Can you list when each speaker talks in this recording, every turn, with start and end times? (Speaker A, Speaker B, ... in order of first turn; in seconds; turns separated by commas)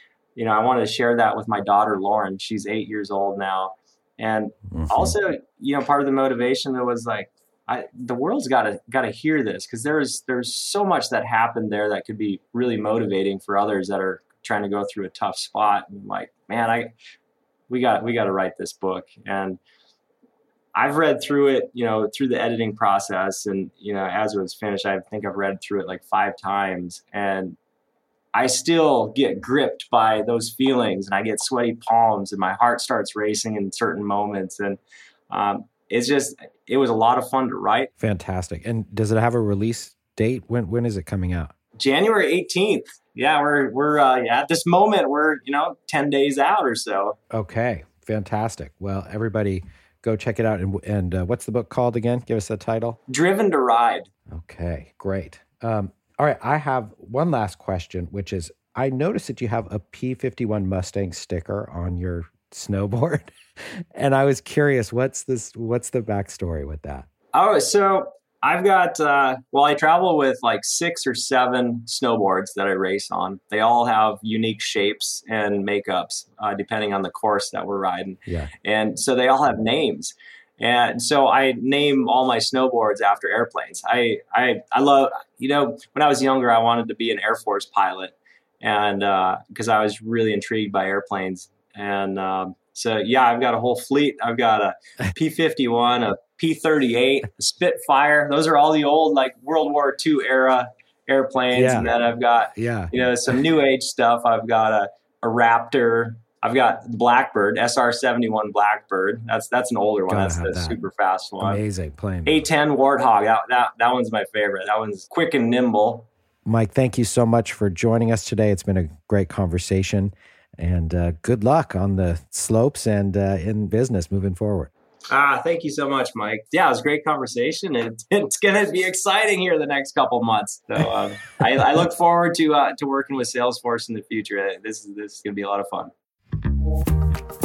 Speaker A: 0.3-16.9, Speaker B: 4.7-5.1, Speaker A: 17.7-19.6, Speaker A: 20.7-27.6, Speaker A: 28.3-34.8, Speaker A: 35.3-37.9, Speaker B: 38.0-41.5, Speaker A: 41.8-47.2, Speaker B: 47.3-53.0, Speaker A: 53.1-54.1, Speaker B: 54.3-67.1, Speaker A: 67.3-111.6, Speaker B: 78.2-78.5, Speaker B: 101.5-101.9, Speaker B: 102.5-102.9, Speaker B: 110.1-110.8, Speaker B: 111.4-112.4, Speaker A: 112.2-116.1, Speaker B: 116.5-124.7, Speaker A: 125.1-135.9